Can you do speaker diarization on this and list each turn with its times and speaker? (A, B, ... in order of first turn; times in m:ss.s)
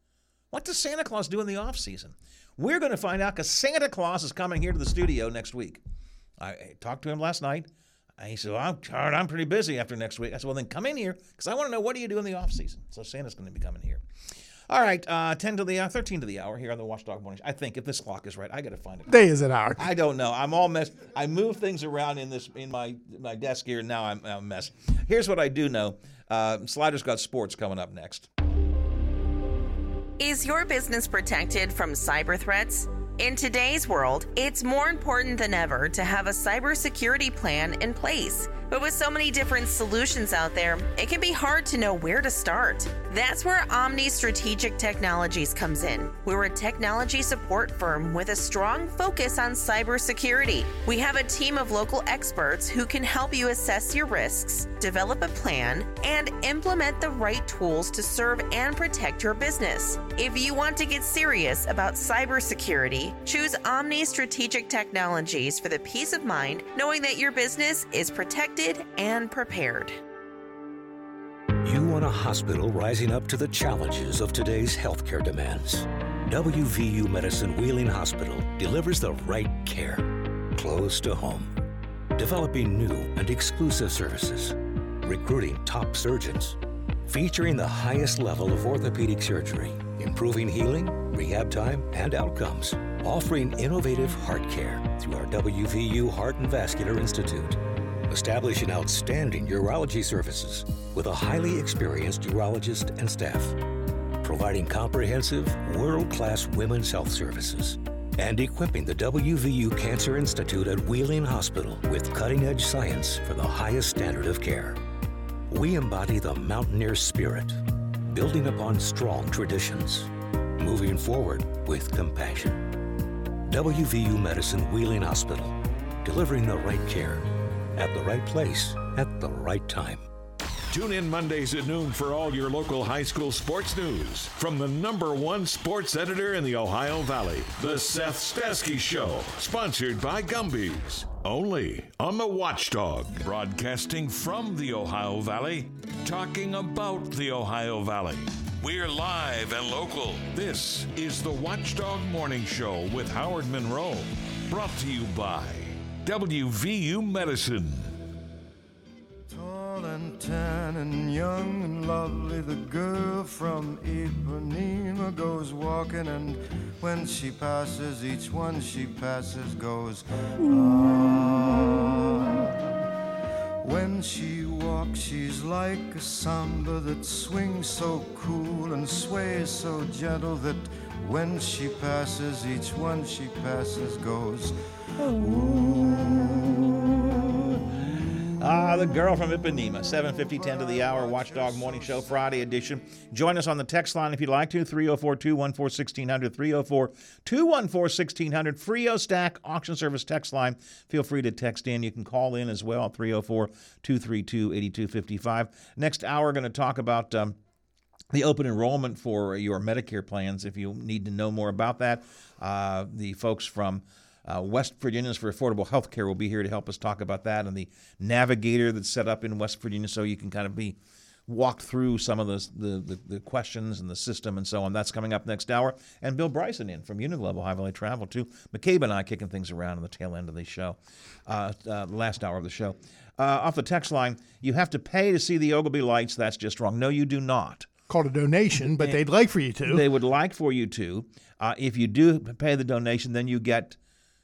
0:00.5-0:05.8 A
0:06.4-0:14.0 A
0:14.7-0:19.1 A
0:19.1-0:19.8 B
0:19.8-0:28.3 A
0:30.2-1:10.0 C
1:11.6-1:21.5 D
1:22.1-1:43.6 D
1:44.2-1:54.8 D
1:55.5-2:02.7 D
2:03.5-2:10.0 D
2:10.7-2:37.9 E
2:39.3-2:52.8 F
2:53.6-3:04.6 F
3:05.1-3:06.4 A
3:05.1-3:06.6 F
3:08.4-3:27.4 A
3:10.2-3:12.2 F
3:28.1-3:40.8 A
3:41.3-3:57.7 A
3:57.9-3:59.8 B
3:59.6-4:03.8 A